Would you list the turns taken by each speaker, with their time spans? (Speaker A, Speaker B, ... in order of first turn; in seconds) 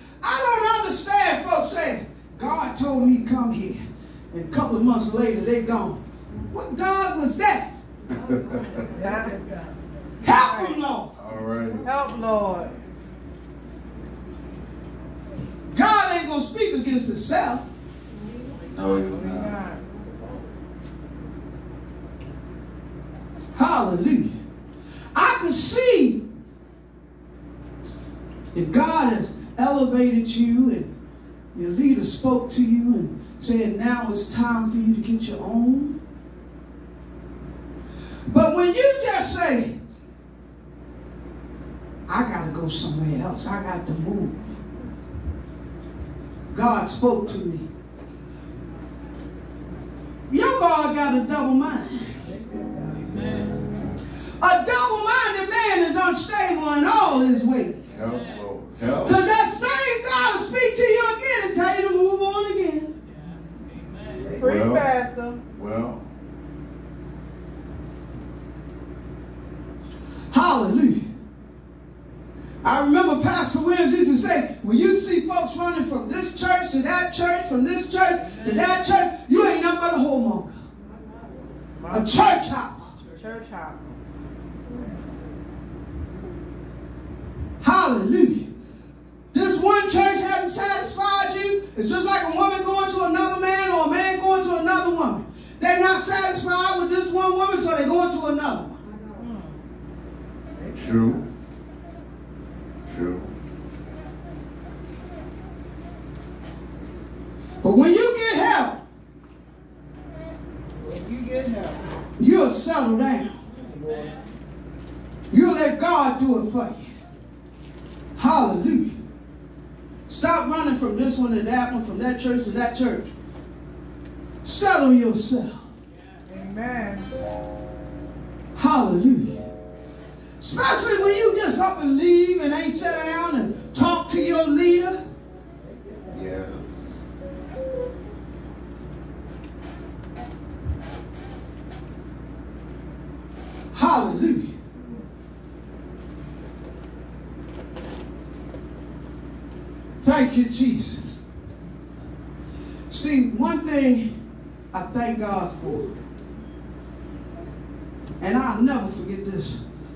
Speaker A: 0.2-7.7, 10.2-11.1, 15.7-17.6, 23.5-24.4, 25.1-26.2, 28.5-30.9, 31.5-36.0, 38.3-39.8, 42.1-44.6, 46.5-47.7, 50.3-52.2, 54.4-57.9, 59.0-62.9, 70.3-71.1, 72.6-80.6, 81.9-82.9, 87.6-88.5, 89.3-98.8, 107.6-108.8, 112.2-113.4, 115.3-116.9, 118.2-119.0, 120.1-123.1, 124.4-125.7, 128.5-129.4, 130.4-135.0, 143.7-144.5, 150.0-151.2, 152.9-154.1, 154.7-155.9, 158.2-159.6
Speaker B: 8.1-8.9, 11.2-11.8, 18.7-19.5, 57.9-59.2, 64.4-64.9, 65.5-66.0, 100.7-101.2, 102.8-103.3, 136.1-136.7
Speaker C: 8.9-9.4, 10.3-10.8, 11.8-12.8, 19.0-19.8, 64.3-65.4, 81.8-82.3, 83.1-83.9, 99.2-99.6, 111.1-111.7, 126.3-127.1